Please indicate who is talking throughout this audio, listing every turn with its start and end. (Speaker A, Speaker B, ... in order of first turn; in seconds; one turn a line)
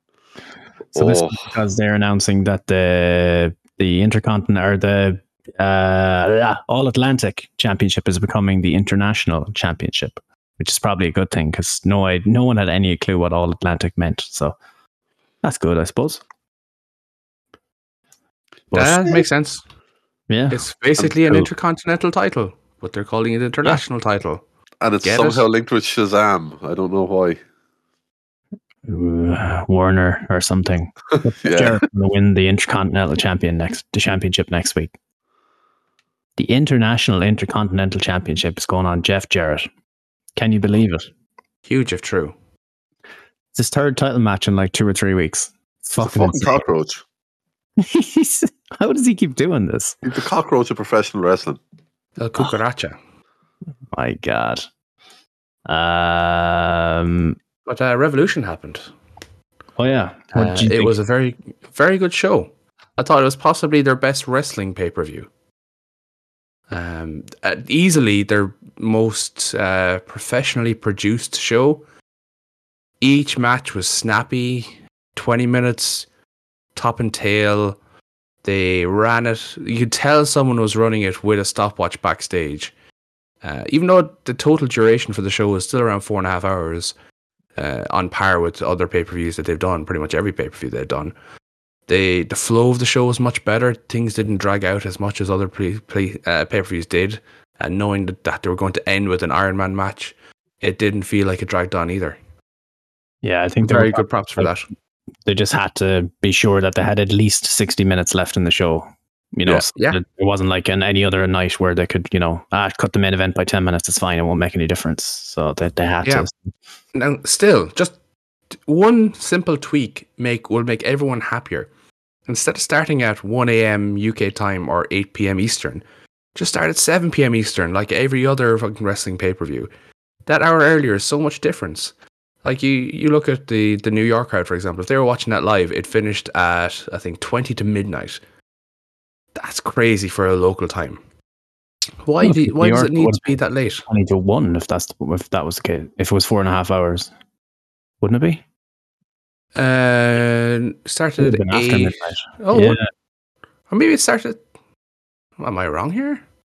Speaker A: 0.9-1.4
Speaker B: 0.9-14.6
Speaker B: 15.4-16.2
Speaker B: 18.7-19.2
Speaker C: 18.7-19.6
Speaker B: 20.3-20.6
Speaker C: 20.5-24.4
Speaker A: 21.0-21.5
Speaker A: 24.8-27.4
Speaker C: 25.0-25.4
Speaker B: 28.9-34.9
Speaker A: 31.4-31.8
Speaker B: 36.4-39.7
Speaker B: 40.4-41.1
Speaker C: 41.7-42.4
Speaker B: 43.5-46.7
Speaker A: 46.0-47.0
Speaker B: 47.8-50.0
Speaker A: 50.0-51.6
Speaker C: 52.2-53.0
Speaker B: 53.9-54.7
Speaker B: 55.7-57.4
Speaker C: 57.7-58.9
Speaker B: 59.8-60.9
Speaker C: 60.3-65.3
Speaker C: 66.7-71.8
Speaker C: 73.0-76.1
Speaker C: 76.8-77.8
Speaker C: 78.4-82.7
Speaker C: 83.4-87.0
Speaker C: 87.6-91.1
Speaker C: 91.9-102.2
Speaker B: 103.2-104.5
Speaker C: 103.6-104.7
Speaker B: 105.3-116.5
Speaker C: 109.8-110.0
Speaker C: 116.9-118.0
Speaker C: 118.6-121.7
Speaker C: 122.3-125.8
Speaker C: 126.3-129.7
Speaker C: 130.3-138.2
Speaker C: 139.3-141.0
Speaker C: 142.0-143.8
Speaker B: 142.2-143.3
Speaker B: 143.9-147.1
Speaker B: 148.0-148.4
Speaker C: 149.6-152.8
Speaker B: 151.2-152.8
Speaker C: 153.7-154.4
Speaker C: 155.4-156.2